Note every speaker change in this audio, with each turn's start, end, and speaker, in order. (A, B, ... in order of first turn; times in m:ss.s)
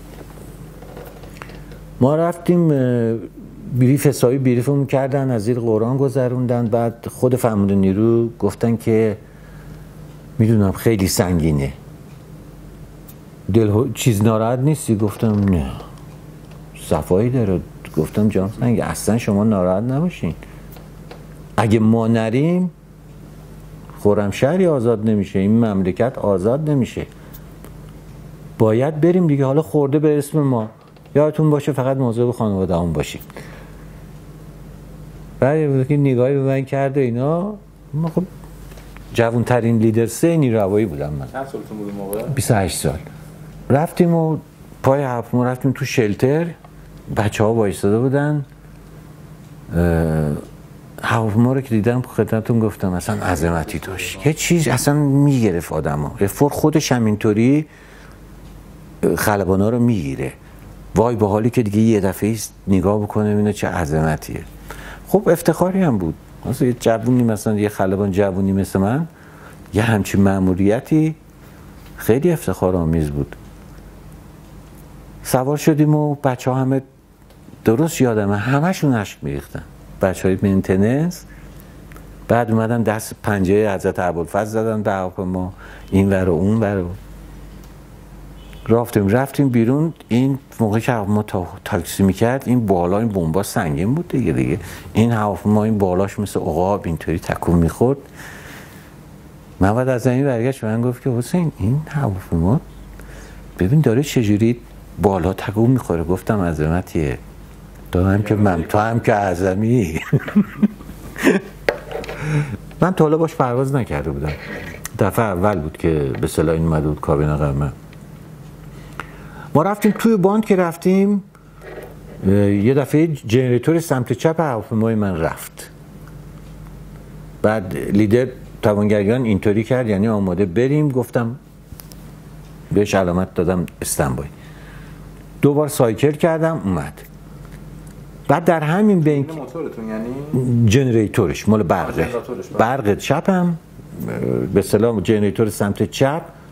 0:02.0-0:09.2 A
0:10.4-0:11.8 A
0:13.5-0:15.9 A
0:16.8-0:20.4 A
0:21.6-0:22.7 A
0:24.0-0:27.1 A
0:28.6-0:33.3 A
0:35.4-0:38.3 A
0:39.1-0:41.3 A
0:41.3-0:42.4 B
0:42.3-0:43.0 A
0:43.7-0:46.6 A
0:47.1-0:48.5 A
0:49.7-0:50.4 A
0:51.0-0:57.7 A
0:53.3-0:54.1 B
0:59.0-1:00.4 A
1:01.0-1:04.5 A
1:05.1-1:09.1 A
1:09.7-1:11.2 A
1:12.0-1:13.4 A
1:15.2-1:16.9 A
1:17.6-1:21.3 A
1:22.3-1:27.0 A
1:28.7-1:38.1 A
1:39.6-1:42.6 A
1:43.6-1:47.2 A
1:47.9-1:50.7 A
1:48.2-1:49.0 B
1:52.2-1:57.7 A
1:59.5-2:01.3 A
2:02.2-2:05.7 A
2:07.4-2:11.4 A
2:12.7-2:14.3 A
2:15.4-2:17.1 A
2:18.3-2:19.4 A
2:19.0-2:20.4 B
2:20.3-2:26.3 A
2:21.8-2:22.7 B